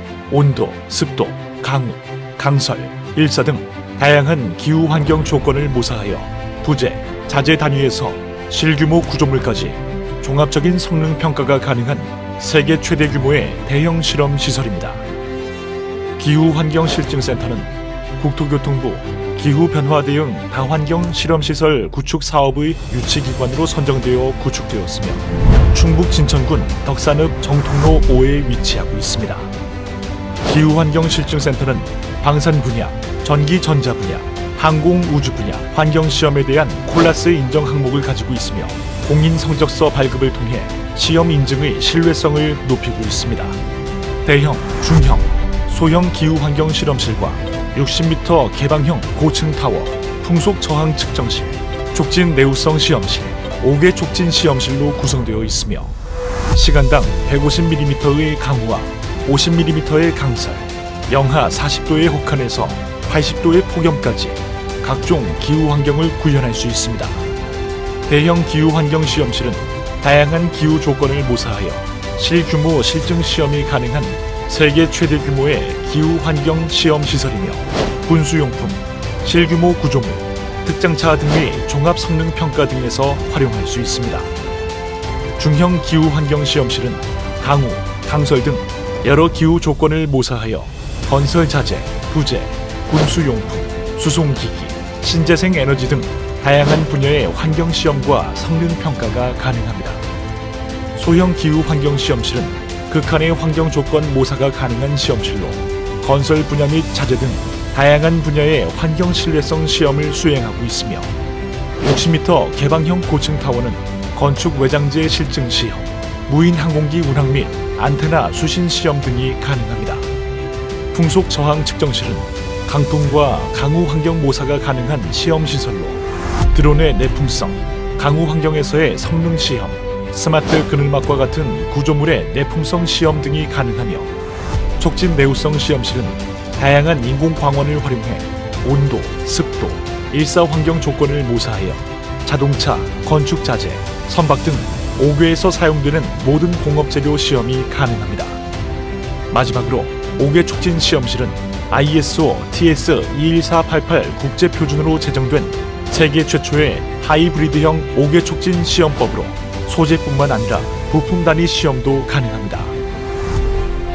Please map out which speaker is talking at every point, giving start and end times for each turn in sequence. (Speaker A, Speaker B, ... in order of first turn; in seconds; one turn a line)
Speaker A: 0.3-15.0
Speaker A: 16.2-29.5
Speaker A: 30.4-43.6
Speaker A: 44.2-55.9
Speaker A: 56.5-67.2
Speaker A: 68.1-84.3
Speaker A: 85.4-100.0
Speaker A: 100.9-111.1
Speaker A: 111.8-120.1
Speaker A: 120.9-126.0
Speaker A: 126.5-134.1
Speaker A: 134.8-148.4
Speaker A: 149.3-162.8